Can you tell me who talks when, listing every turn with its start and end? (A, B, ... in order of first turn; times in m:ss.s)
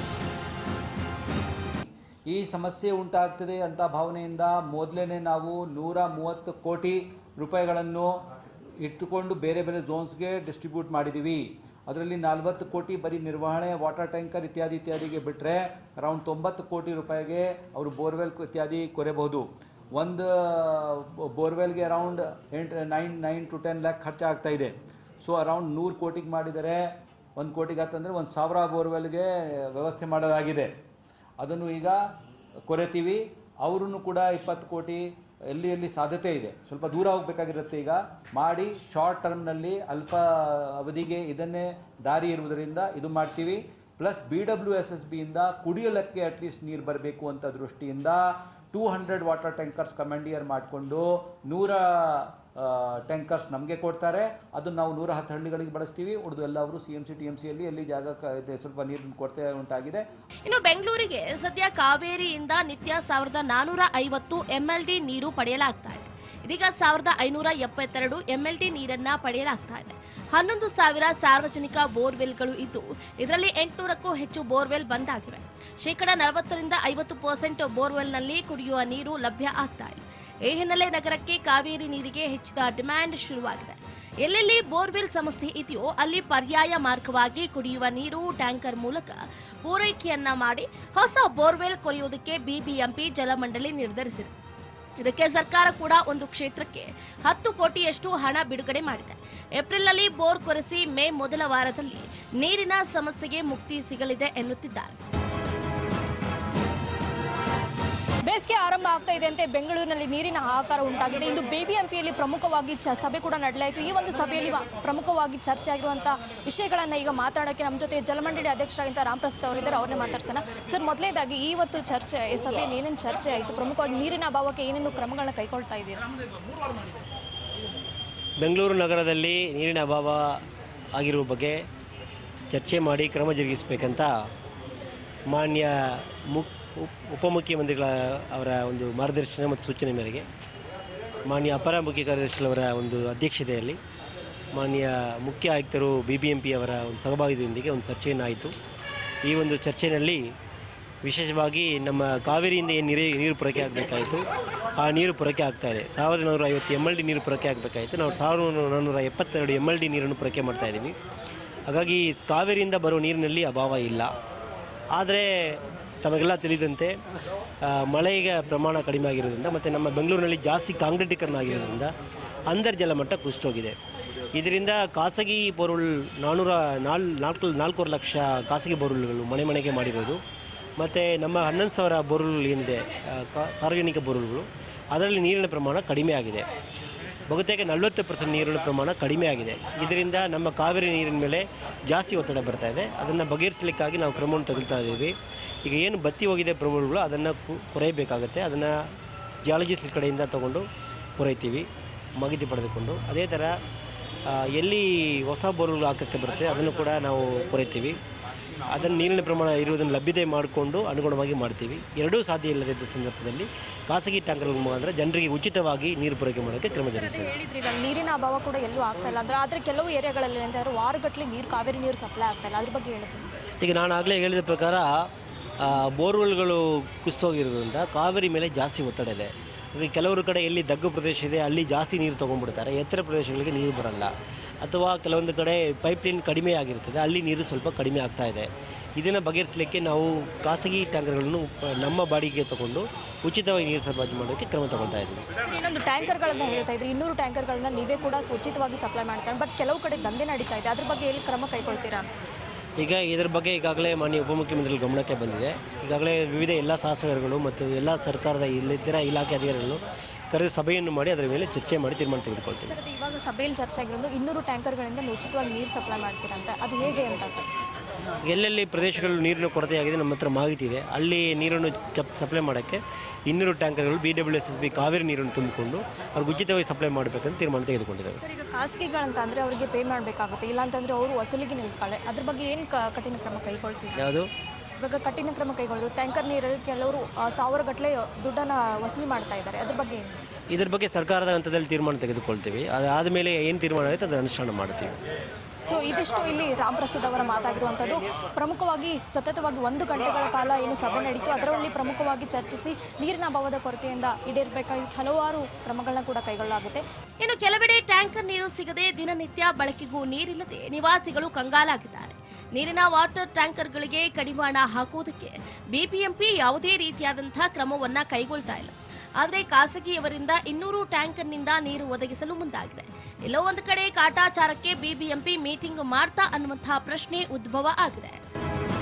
0:02.3-0:08.1 A
0:08.8-0:30.7 A
0:31.4-0:32.0 A
0:32.7-1:00.1 A
1:00.4-1:34.3 B
1:35.0-1:44.9 B
1:48.3-2:06.0 C
2:08.4-2:10.4 D
2:10.9-2:11.6 D
2:12.5-2:14.1 D
2:15.3-2:20.3 D
2:21.2-2:23.8 D
2:24.5-2:28.5 D
2:29.2-2:30.2 D
2:31.0-2:34.2 D
2:34.8-2:40.9 D
2:41.7-2:44.1 D
2:44.9-2:47.0 D
2:47.6-2:51.9 D
2:52.5-2:53.8 D
2:54.3-3:00.2 D
3:00.8-3:06.4 D
3:07.3-3:18.7 D
3:19.4-3:21.7 D
3:22.2-3:23.5 D
3:24.3-3:28.0 D
3:28.7-3:37.3 D
3:36.9-3:43.2 C
3:43.6-3:45.1 D
3:45.6-3:54.1 D
3:54.6-4:05.2 D
4:05.4-4:12.1 C
4:12.8-4:22.8 D
4:22.7-4:27.5 C
4:28.3-4:38.2 D
4:38.2-4:44.1 C
4:44.0-4:44.3 D
4:44.8-4:50.2 C
4:50.5-4:55.0 D
4:55.7-5:06.8 C
5:07.2-5:28.2 B